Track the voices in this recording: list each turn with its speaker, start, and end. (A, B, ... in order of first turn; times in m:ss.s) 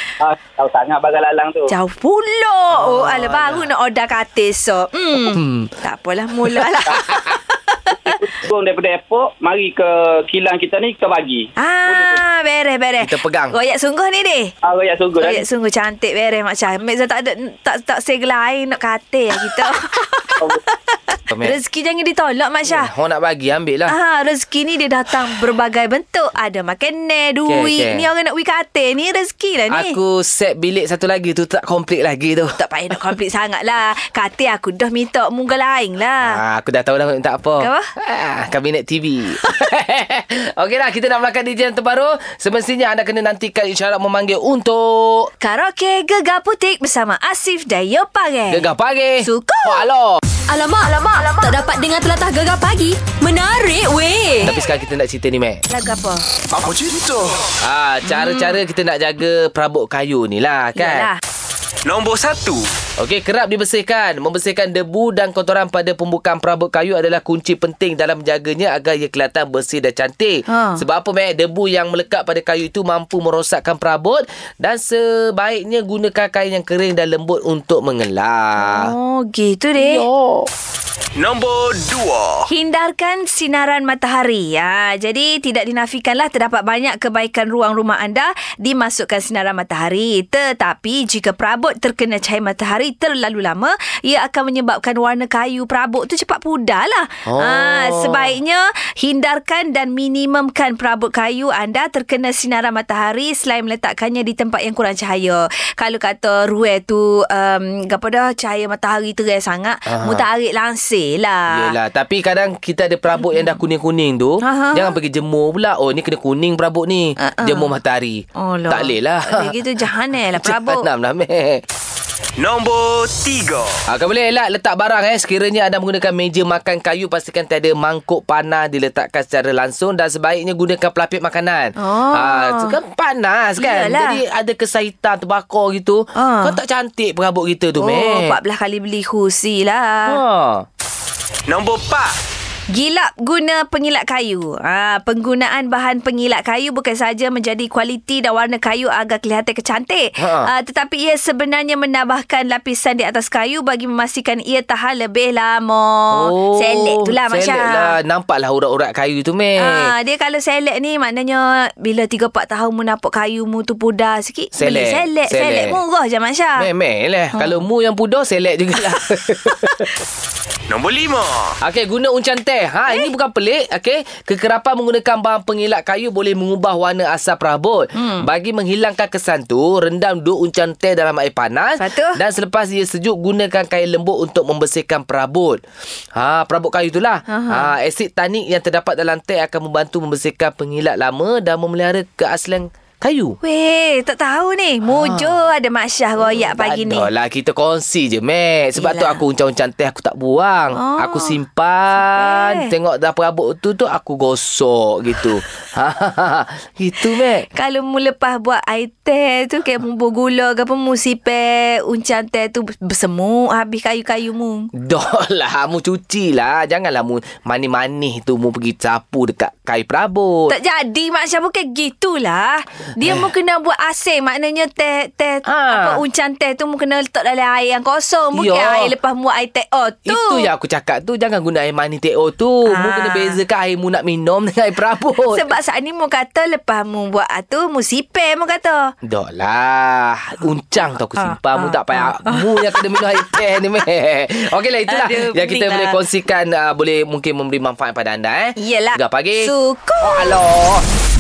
0:00.2-0:01.7 A
0:01.7-0:08.2 B
0:02.7-0:03.7 C
0:05.2-0:05.7 C
0:06.4-0:07.4 C
0:08.1-0:12.2 A
0:11.6-0:14.5 B
0:13.0-0:13.6 C
0:14.6-0:15.4 A
0:15.2-0:22.9 B
0:21.3-0:21.6 C
0:22.7-0:24.0 C
0:23.9-0:30.0 B
0:27.5-0:28.1 C
0:29.7-0:33.1 C
0:32.6-0:36.4 B
0:36.2-0:45.3 C
0:37.6-0:37.9 B
0:45.4-0:48.7 B
0:48.5-0:50.2 C
0:49.2-0:49.8 B
0:50.5-0:54.5 D
0:54.4-0:55.6 C
0:55.7-0:56.2 B
0:56.5-0:57.5 E
0:57.6-1:01.1 C
0:58.1-0:58.6 B
1:00.8-1:01.2 B
1:01.9-1:02.7 E
1:03.0-1:18.9 C
1:10.5-1:10.8 B
1:18.6-1:20.0 B
1:19.8-1:20.5 C
1:21.2-1:22.5 E
1:22.5-1:51.8 B
1:37.3-1:38.4 C
1:49.9-1:50.3 C
1:51.5-1:59.6 C
1:54.4-1:55.0 B
1:57.2-1:57.7 B
1:58.4-2:00.8 B
2:00.3-2:01.6 C
2:02.4-2:03.8 E
2:03.9-2:18.4 C
2:11.8-2:12.7 B
2:13.6-2:14.2 B
2:16.2-2:16.6 B
2:17.8-2:20.2 B
2:20.1-2:20.7 C
2:21.5-2:22.2 E
2:22.7-2:37.9 B
2:30.2-2:30.5 C
2:36.1-2:39.9 C
2:39.6-2:46.7 B
2:44.6-2:45.8 C
2:46.6-2:49.9 C
2:50.7-2:51.6 E
2:51.6-3:05.6 C
2:58.0-2:58.2 B
3:01.8-3:02.2 B
3:06.2-3:13.4 C
3:07.3-3:07.7 B
3:13.4-3:17.1 B
3:14.9-3:15.4 C
3:16.2-3:27.5 C
3:18.8-3:19.2 B
3:20.8-3:21.4 B
3:22.0-3:22.7 B
3:27.5-3:34.7 B
3:34.8-3:40.6 C
3:40.5-3:50.5 B
3:43.0-3:43.3 C
3:45.4-3:46.0 C
3:48.3-3:48.9 C
3:50.0-3:55.5 C
3:52.7-3:53.4 B
3:55.3-3:58.8 B
3:59.0-4:10.8 C
4:01.2-4:03.0 B
4:04.9-4:06.0 B
4:08.6-4:10.4 B